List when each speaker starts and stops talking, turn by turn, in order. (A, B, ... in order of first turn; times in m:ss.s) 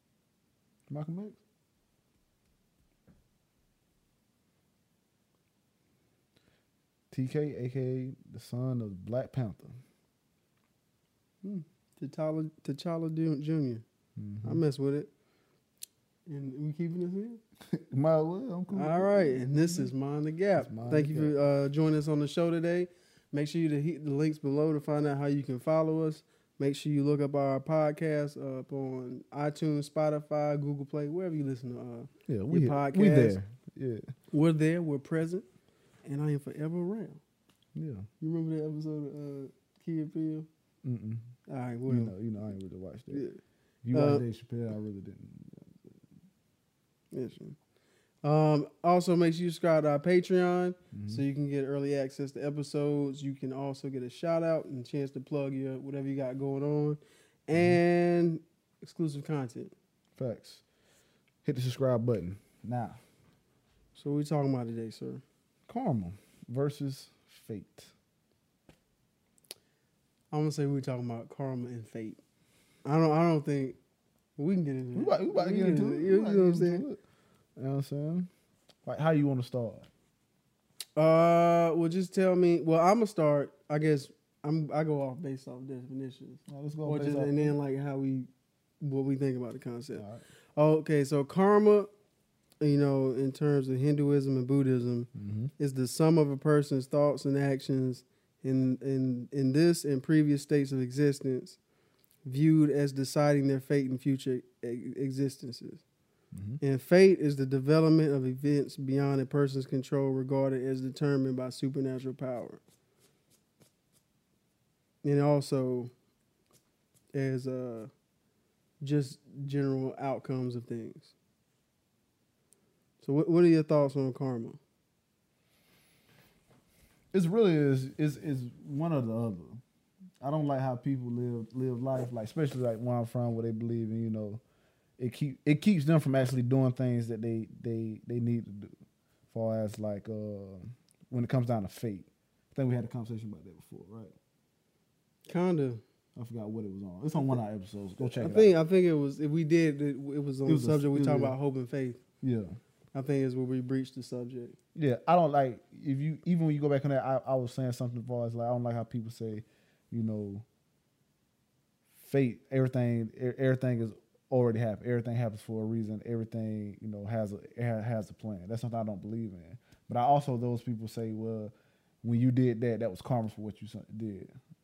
0:00.9-0:01.4 A
0:07.1-0:09.8 A
0:11.4-0:13.8 B
0:14.2-0:14.6 A
0:14.4-0:15.1 B
0:16.3-0:17.4 B
0:17.7-0:19.9 A
0:18.7-0:33.4 B
0:20.6-0:21.3 A
0:32.3-0:34.1 A
0:34.3-0:35.4 B
0:36.0-0:37.2 B
0:37.8-0:38.1 A
0:38.2-0:40.5 B
0:40.8-0:41.3 A
0:41.5-0:42.2 B
0:41.9-0:43.2 A
0:43.1-0:43.4 B
0:43.8-0:45.9 A
0:43.9-0:44.2 B
0:47.1-0:47.6 B
0:48.2-0:59.7 B
0:50.9-0:51.2 A
0:57.5-0:57.8 A
1:00.2-1:00.6 A
1:01.4-1:03.0 A
1:04.0-1:05.2 B
1:05.7-1:07.9 A
1:10.3-1:12.2 B
1:12.8-1:13.8 B
1:14.4-1:16.8 B
1:15.0-1:17.0 A
1:17.6-1:18.3 A
1:18.8-1:19.9 A
1:21.0-1:28.3 B
1:26.5-1:27.6 A
1:28.8-1:30.0 B
1:30.0-1:30.2 A
1:30.6-1:31.9 B
1:32.6-1:41.6 B
1:35.2-1:35.5 A
1:42.2-1:45.8 B
1:46.3-1:46.6 A
1:46.6-1:52.6 B
1:55.0-1:55.9 B
1:57.1-1:57.9 B
1:58.8-2:01.1 B
2:03.0-2:04.6 B
2:07.1-2:09.6 A
2:10.2-2:14.4 A
2:15.0-2:18.8 A
2:19.3-2:24.1 A
2:25.3-2:25.8 B
2:26.2-2:28.5 A
2:28.0-2:32.0 B
2:30.5-2:31.4 A
2:32.2-2:32.6 A
2:32.9-2:34.6 B
2:34.8-2:40.4 A
2:42.0-2:51.5 A
2:52.0-2:54.3 A